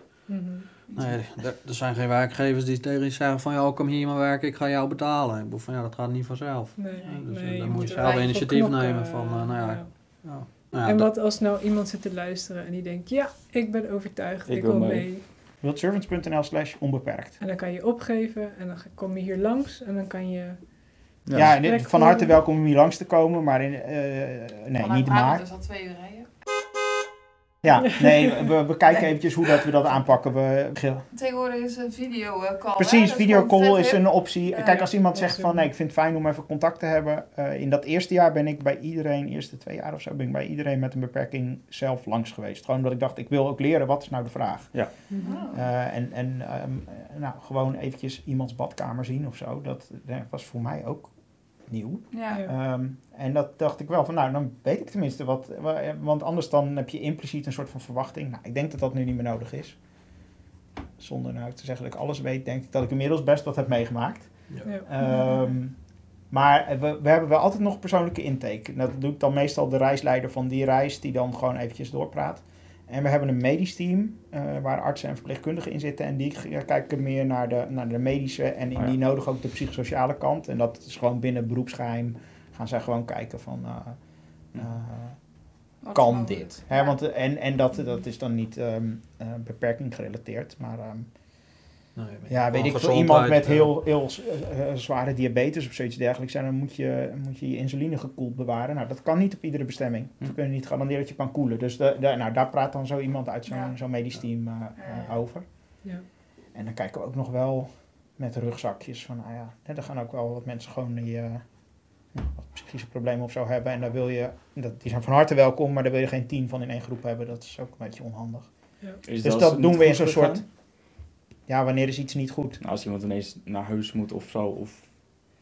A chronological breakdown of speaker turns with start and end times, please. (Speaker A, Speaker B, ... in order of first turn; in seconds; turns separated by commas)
Speaker A: 0.3-0.7, Speaker B: 0.9-1.1, Speaker C: 0.9-11.1, Speaker A: 6.8-15.3, Speaker B: 8.0-8.3, Speaker D: 14.5-15.1, Speaker E: 15.6-17.4, Speaker A: 17.4-22.4, Speaker D: 21.3-21.6, Speaker E: 21.3-25.4, Speaker B: 24.8-26.3, Speaker E: 27.6-31.1, Speaker A: 27.9-28.5, Speaker B: 31.1-34.9, Speaker E: 32.8-59.8, Speaker A: 35.1-35.7, Speaker A: 45.1-45.5, Speaker B: 45.2-45.7, Speaker B: 52.1-52.4, Speaker E: 61.0-65.8, Speaker A: 64.6-65.4, Speaker E: 66.3-84.0, Speaker E: 84.5-85.2, Speaker B: 85.8-87.0, Speaker E: 85.9-91.1, Speaker C: 91.9-93.7, Speaker E: 92.3-105.5, Speaker B: 103.5-103.7, Speaker B: 104.8-105.2, Speaker E: 106.5-111.5, Speaker E: 112.1-120.7, Speaker D: 119.0-120.4, Speaker E: 121.5-122.6, Speaker D: 122.6-124.9